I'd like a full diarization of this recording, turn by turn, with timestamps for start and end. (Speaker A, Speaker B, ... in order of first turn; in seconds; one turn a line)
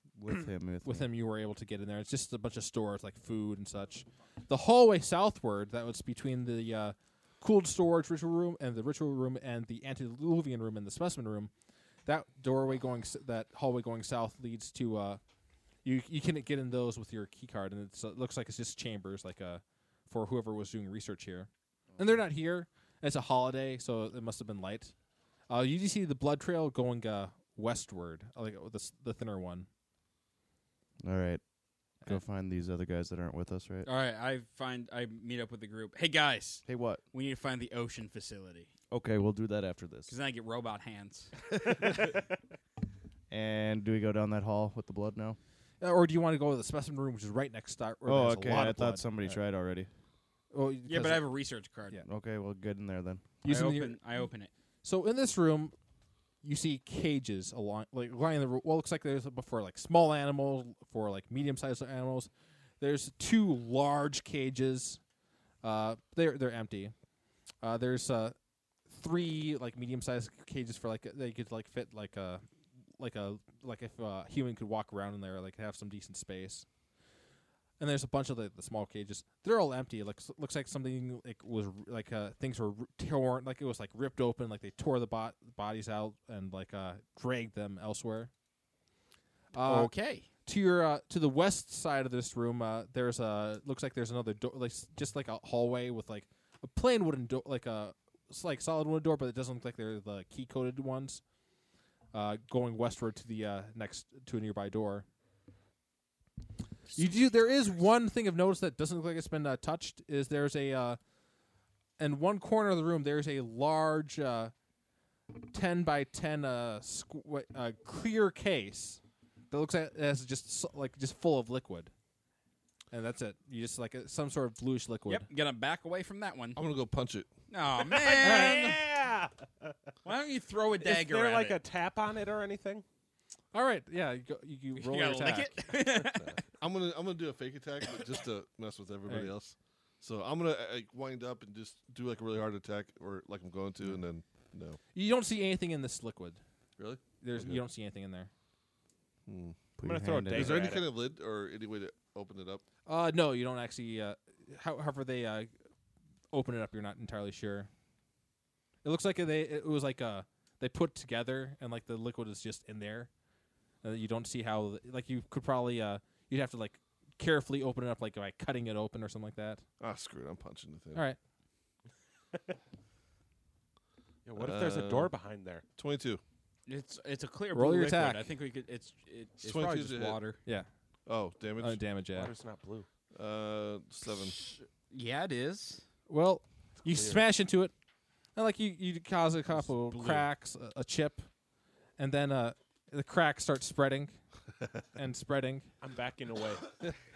Speaker A: 0.1-1.1
Speaker B: 0.8-11.5
Speaker B: 12.1-15.2
Speaker B: 15.8-24.9
Speaker A: 21.9-22.2
Speaker B: 25.5-29.7
Speaker A: 31.0-31.4
Speaker A: 32.0-33.9
Speaker C: 33.9-38.7
Speaker A: 36.7-37.0
Speaker A: 38.9-40.1
Speaker C: 40.1-41.3
Speaker A: 43.3-45.4
Speaker B: 45.8-49.4
Speaker A: 48.0-49.9
Speaker B: 50.5-51.3
Speaker C: 50.9-52.0
Speaker A: 52.0-53.2
Speaker B: 53.4-54.0
Speaker C: 53.4-54.5
Speaker B: 54.8-55.7
Speaker B: 56.4-65.0
Speaker B: 65.6-66.9
Speaker B: 67.6-68.3
Speaker B: 68.9-72.4
Speaker B: 73.0-76.7
Speaker B: 77.8-88.3
Speaker B: 89.5-101.2
Speaker C: 89.6-90.3
Speaker B: 102.1-105.0
Speaker B: 106.9-111.0
Speaker B: 112.0-114.5
Speaker B: 115.3-119.0
Speaker B: 119.5-121.9
Speaker B: 122.9-125.3
Speaker C: 125.1-126.6
Speaker D: 126.5-127.3
Speaker C: 127.5-128.8
Speaker E: 128.0-129.7
Speaker B: 128.2-128.8
Speaker C: 130.0-131.6
Speaker E: 130.8-132.8
Speaker B: 133.5-135.6
Speaker C: 134.7-136.3
Speaker D: 136.2-144.8
Speaker B: 144.9-146.4
Speaker D: 146.8-147.6
Speaker B: 147.2-148.3
Speaker D: 149.3-149.7
Speaker A: 149.8-150.8
Speaker E: 149.8-150.9
Speaker D: 150.3-152.6
Speaker B: 152.8-155.5
Speaker B: 156.3-157.7
Speaker B: 158.8-163.1
Speaker B: 163.8-169.6
Speaker D: 169.8-171.1
Speaker E: 174.2-175.6
Speaker D: 174.4-175.1
Speaker D: 175.8-176.2
Speaker C: 176.7-180.4
Speaker B: 177.5-178.3
Speaker D: 179.4-180.2
Speaker D: 181.1-181.8
Speaker B: 181.6-182.3
Speaker E: 182.1-182.8
Speaker D: 183.1-184.4
Speaker C: 184.3-185.8
Speaker B: 186.1-187.7
Speaker E: 186.9-187.2
Speaker B: 188.3-191.3
Speaker C: 189.5-190.2
Speaker B: 192.0-194.2
Speaker B: 194.9-195.7
Speaker E: 195.8-196.7